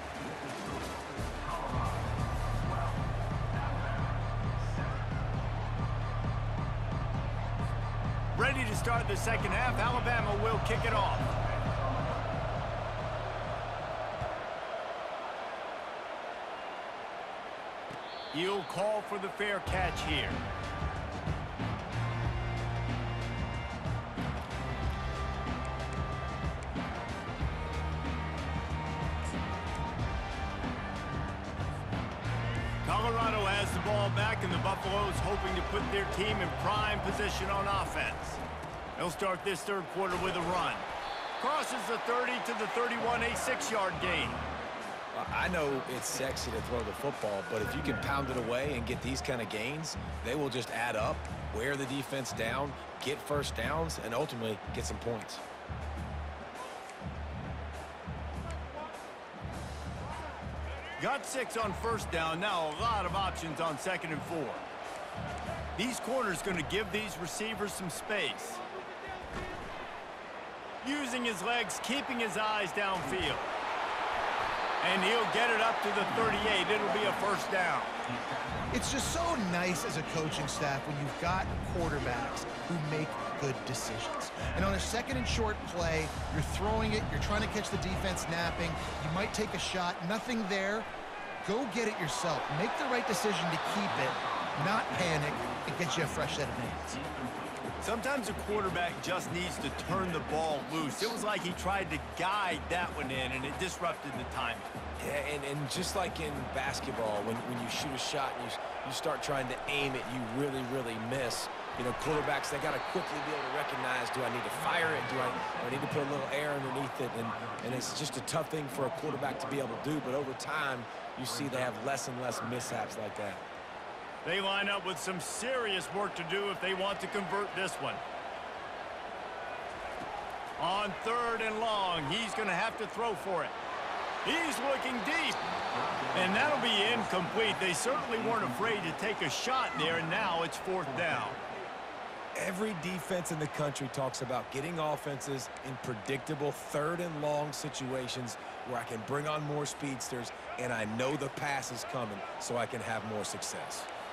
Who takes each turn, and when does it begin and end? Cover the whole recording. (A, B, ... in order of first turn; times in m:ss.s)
0:00.2-0:02.0 A
0:02.7-0:03.0 A
0:03.5-0:05.1 A
0:08.3-0:11.3 B
0:18.3-0:20.4 B
0:32.8-0:38.4 B
0:39.0-0:40.9 B
0:41.4-0:44.4 B
0:45.1-0:55.4 A
1:01.0-1:04.7 B
1:05.7-1:08.6 B
1:10.8-1:13.5 B
1:14.8-1:17.9 B
1:18.7-1:30.9 C
1:31.4-1:37.0 C
1:37.8-1:44.7 B
1:45.0-2:03.4 A
2:04.2-2:08.0 B
2:10.6-2:13.6 B
2:14.2-2:15.4 B
2:16.1-2:21.4 B
2:22.4-2:33.9 A